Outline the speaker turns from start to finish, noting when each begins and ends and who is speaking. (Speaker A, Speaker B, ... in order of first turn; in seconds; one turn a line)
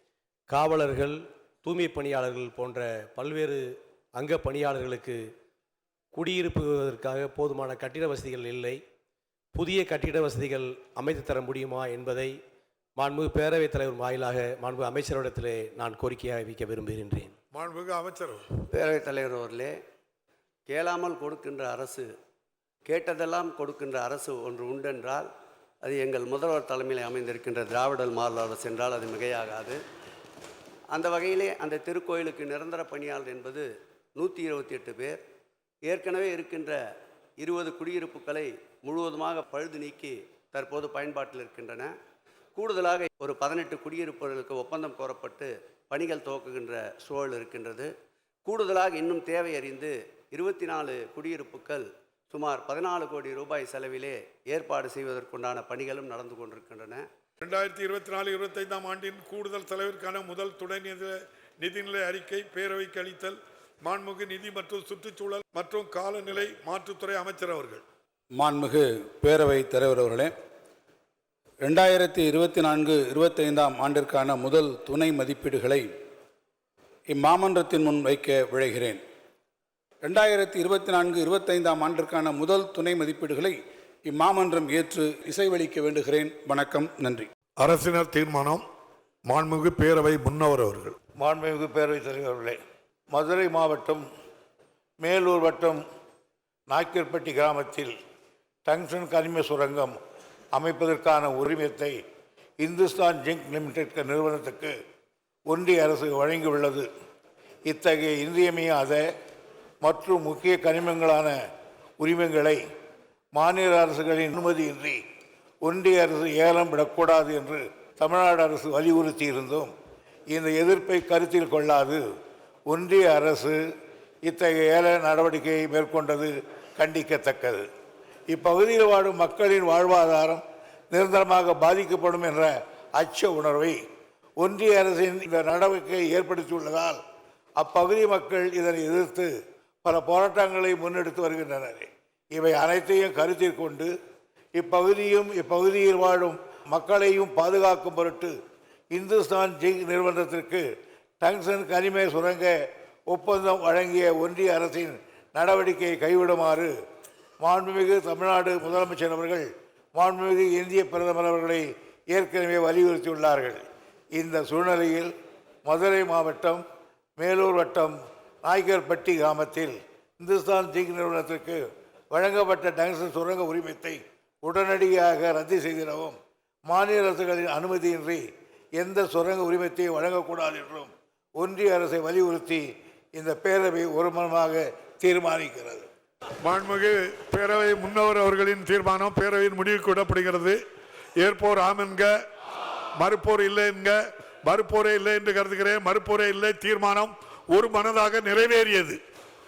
Speaker A: 0.5-5.2
Speaker A: 6.1-8.8
Speaker A: 9.5-12.4
Speaker A: 13.0-17.3
Speaker B: 17.5-18.4
Speaker C: 18.7-19.8
Speaker C: 20.7-22.1
Speaker C: 22.8-25.3
Speaker C: 25.8-29.8
Speaker C: 30.9-35.2
Speaker C: 35.8-36.8
Speaker C: 37.4-41.9
Speaker C: 42.5-47.9
Speaker C: 48.4-57.0
Speaker B: 57.4-67.8
Speaker D: 68.3-70.3
Speaker D: 71.6-75.9
Speaker D: 77.1-79.0
Speaker D: 80.0-87.3
Speaker B: 87.6-88.6
Speaker B: 89.2-91.0
Speaker E: 91.2-92.6
Speaker E: 93.1-94.0
Speaker E: 95.0-95.8
Speaker E: 96.7-97.9
Speaker E: 98.7-100.0
Speaker E: 100.5-102.0
Speaker E: 102.6-104.7
Speaker E: 105.5-106.9
Speaker E: 107.6-109.0
Speaker E: 109.8-111.4
Speaker E: 112.0-112.6
Speaker E: 113.3-115.0
Speaker E: 115.6-119.7
Speaker E: 120.3-122.0
Speaker E: 122.7-123.6
Speaker E: 124.2-127.7
Speaker E: 128.3-133.8
Speaker E: 134.4-137.0
Speaker E: 137.6-143.9
Speaker E: 144.6-148.3
Speaker E: 148.9-150.6
Speaker E: 151.2-156.7
Speaker E: 157.4-165.1
Speaker E: 165.6-166.6
Speaker E: 167.2-178.2
Speaker E: 178.8-185.8
Speaker B: 186.4-190.6
Speaker B: 191.2-192.1
Speaker B: 192.9-199.0